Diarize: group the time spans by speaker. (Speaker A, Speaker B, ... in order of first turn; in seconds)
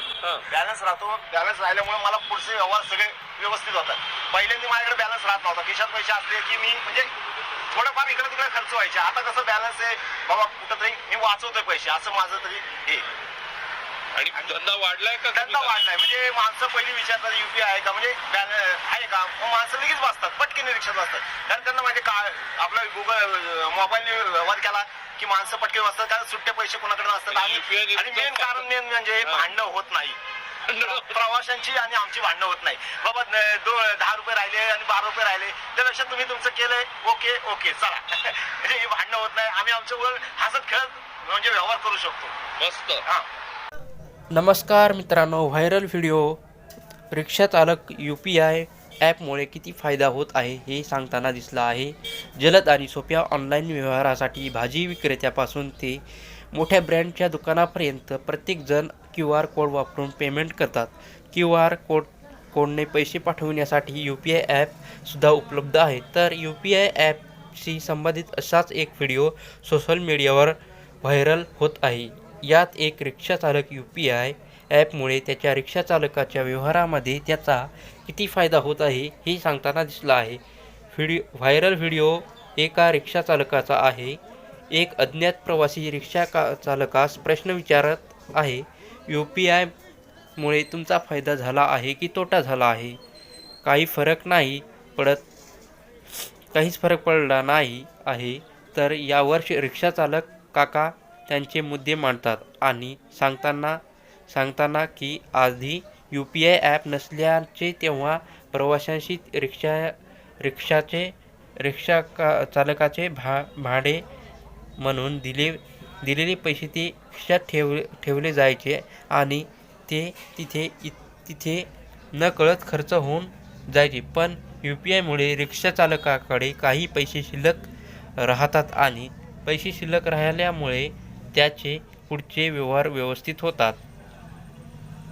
Speaker A: 0.5-7.1, 7.7-13.0, 14.3-14.6, 15.3-30.2, 30.7-42.4
Speaker B: 14.1-15.8, 27.3-28.7, 30.7-31.1, 42.6-43.0
Speaker C: 44.3-46.4, 47.1-56.0, 56.5-80.4, 80.9-84.2, 84.7-89.7, 90.4-93.0, 93.6-95.2, 96.5-103.8, 104.3-114.0, 114.8-133.8